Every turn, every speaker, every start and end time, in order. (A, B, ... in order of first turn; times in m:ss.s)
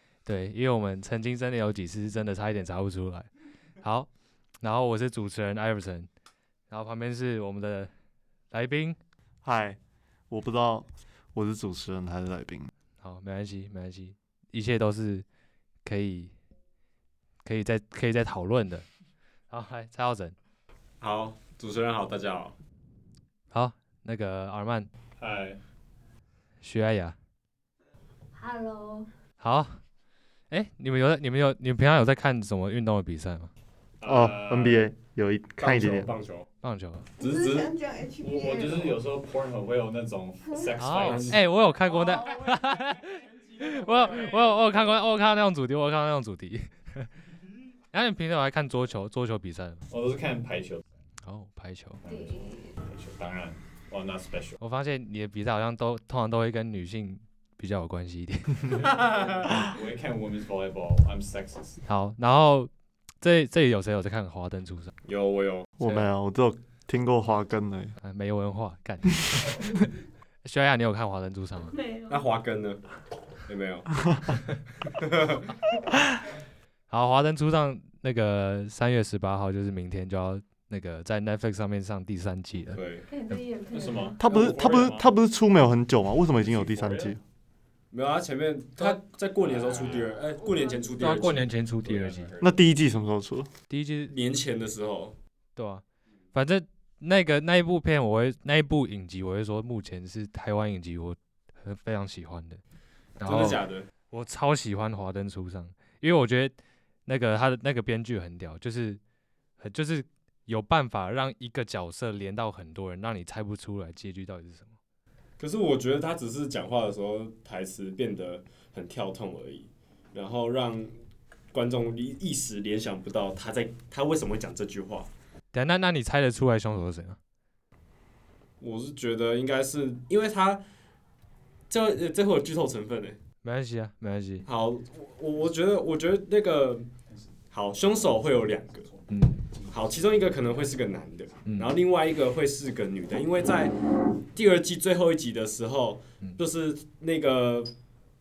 0:00.2-0:03.3 A
0:03.8-0:04.1 A
0:04.6-0:06.1 A
0:06.7-0:07.9 A
0:08.5-0:09.0 A
0:09.4-0:09.8 B
0:10.3-0:12.7 B
0:13.0-0:15.2 A
0:15.8-0:16.3 A
0:17.4-0:18.9 A
0:19.5-0:20.4 A
0:21.0-0:22.6 C
0:23.5-0:24.9 A
0:25.2-0:25.6 D
0:26.6-0:27.2 A
0:28.4-0:29.1 E
0:29.4-0:29.8 A
0:30.5-0:33.5 A
0:34.0-0:34.9 D
0:34.0-0:36.1 B
0:35.6-0:36.5 C
0:36.6-0:37.1 A
0:37.2-0:39.0 E
0:37.2-0:37.7 C
0:38.2-0:41.4 D
0:40.8-0:47.1 A
0:41.0-0:41.4 C
0:47.9-0:49.8 A
0:49.9-0:50.8 D
0:51.2-0:52.0 A
0:52.0-0:54.6 D
0:52.1-0:52.8 E
0:54.6-0:59.1 A
0:58.8-1:01.8 D
1:01.9-1:02.7 A
1:03.2-1:04.9 A
1:05.0-1:05.7 C
1:05.8-1:08.0 B
1:05.8-1:06.1 A
1:08.0-1:09.9 A
1:10.4-1:11.8 A
1:11.7-1:12.2 E
1:12.1-1:12.9 C
1:13.5-1:14.2 C
1:14.9-1:15.6 C
1:16.9-1:23.4 A
1:22.7-1:23.1 C
1:23.1-1:24.2 E
1:23.7-1:25.1 D
1:24.2-1:27.2 B
1:26.4-1:27.2 D
1:27.9-1:31.5 C
1:29.4-1:30.2 D
1:30.4-1:31.0 E
1:31.0-1:32.3 A
1:31.8-1:32.6 D
1:32.4-1:33.5 B
1:33.7-1:34.1 A
1:34.1-1:35.2 C
1:35.6-1:35.8 A
1:36.3-1:42.6 A
1:43.2-1:46.6 A
1:43.2-1:43.9 C
1:47.1-1:49.0 A
1:49.6-1:54.7 A
1:55.4-2:01.0 C
2:01.5-2:05.1 C
2:05.5-2:07.2 A
2:08.6-2:10.6 C
2:11.7-2:13.2 C
2:13.4-2:14.5 A
2:14.4-2:16.9 C
2:17.5-2:18.9 C
2:19.1-2:19.5 A
2:19.7-2:27.7 C
2:19.9-2:20.5 D
2:21.4-2:21.8 A